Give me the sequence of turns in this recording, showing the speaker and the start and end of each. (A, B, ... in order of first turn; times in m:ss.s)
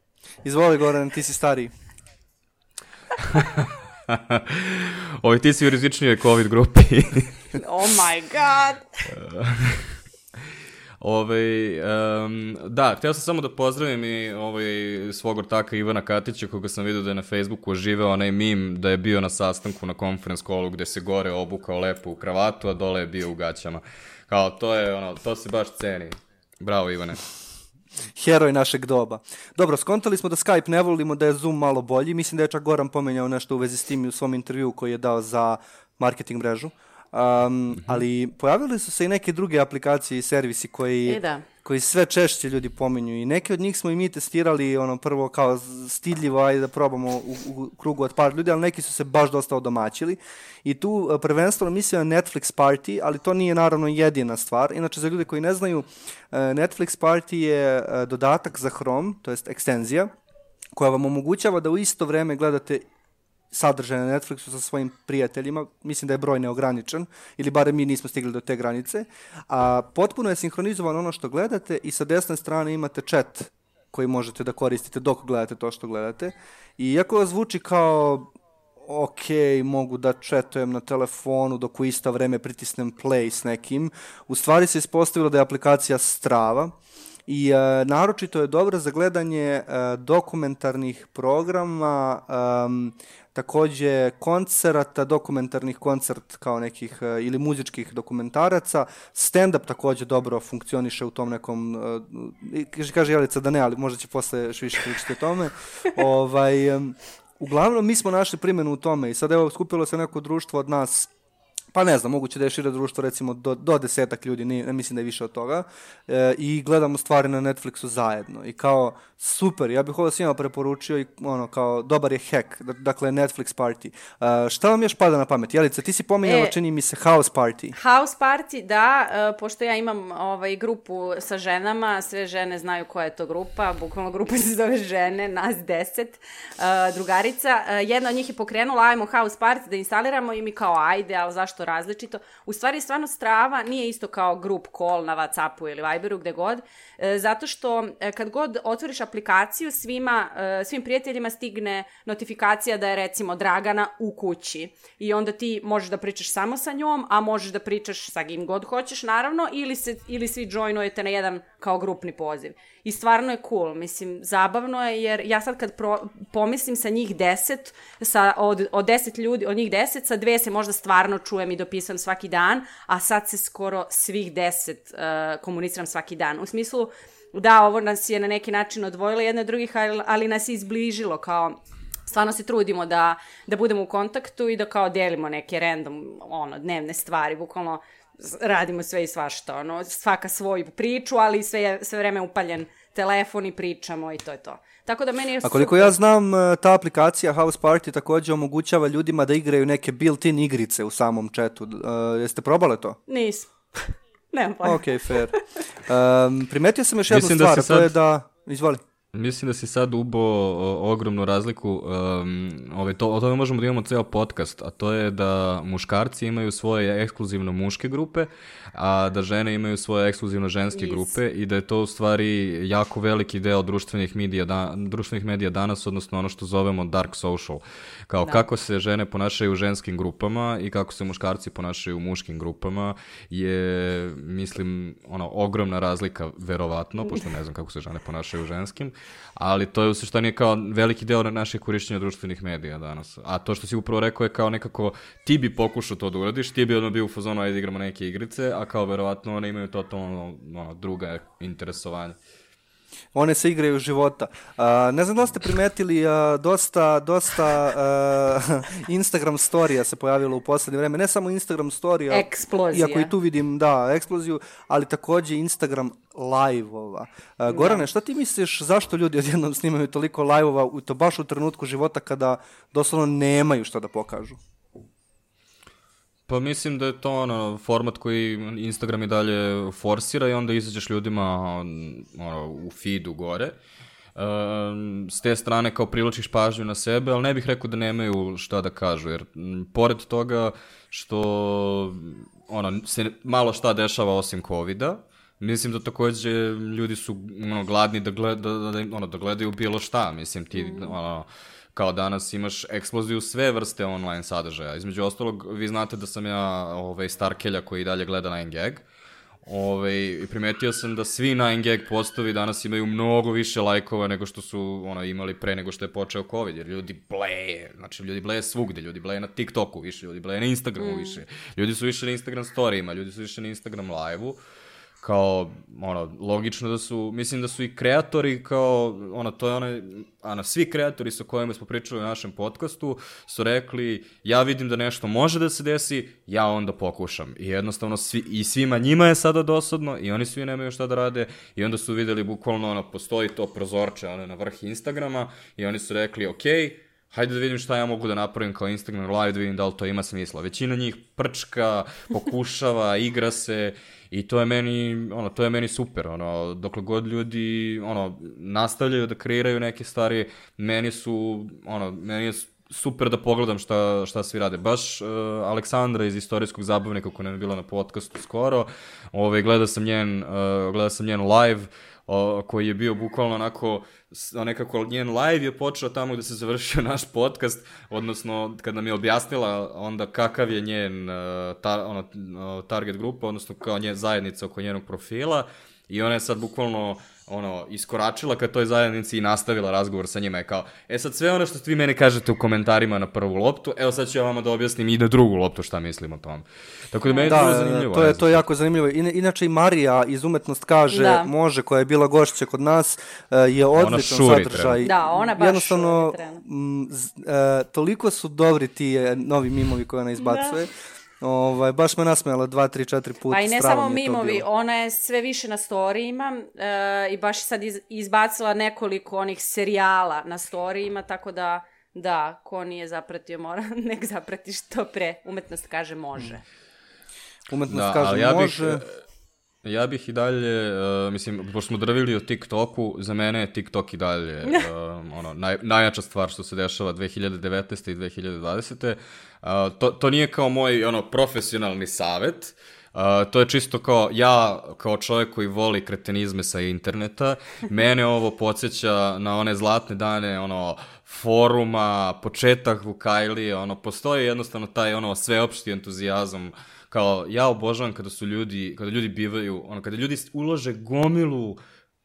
0:00.4-0:01.7 A
0:03.3-0:07.6 B
0:07.6-0:09.0 C
0:09.1-0:10.0 B
0:11.0-0:27.2 B
0:28.2-1:00.1 A
0:41.0-0:41.4 C
1:00.7-1:02.8 A
1:03.5-1:18.3 A
1:18.8-1:26.7 A
1:27.3-1:51.1 A
1:51.7-2:07.8 A
2:06.2-2:06.5 C
2:07.8-3:15.9 C
3:15.4-3:23.0 A
3:23.1-3:25.4 C
3:24.6-3:28.8 A
3:27.1-3:27.9 B
3:29.1-4:12.2 B
3:40.7-3:41.1 C
4:13.1-4:34.4 A
4:22.1-4:23.1 C
4:27.5-4:27.8 C
4:36.3-4:43.5 B
4:44.2-5:08.8 B
5:00.5-5:01.0 C
5:09.4-5:24.4 B
5:20.8-5:21.2 C
5:25.0-6:38.4 B
6:37.0-6:37.4 C
6:37.2-6:54.4 A
6:40.9-6:41.3 C
6:43.8-6:44.8 B
6:44.8-6:46.4 C
6:50.2-6:50.6 C
6:53.3-7:06.4 C
7:07.5-7:08.8 A
7:07.7-7:09.0 B
7:09.6-7:41.6 B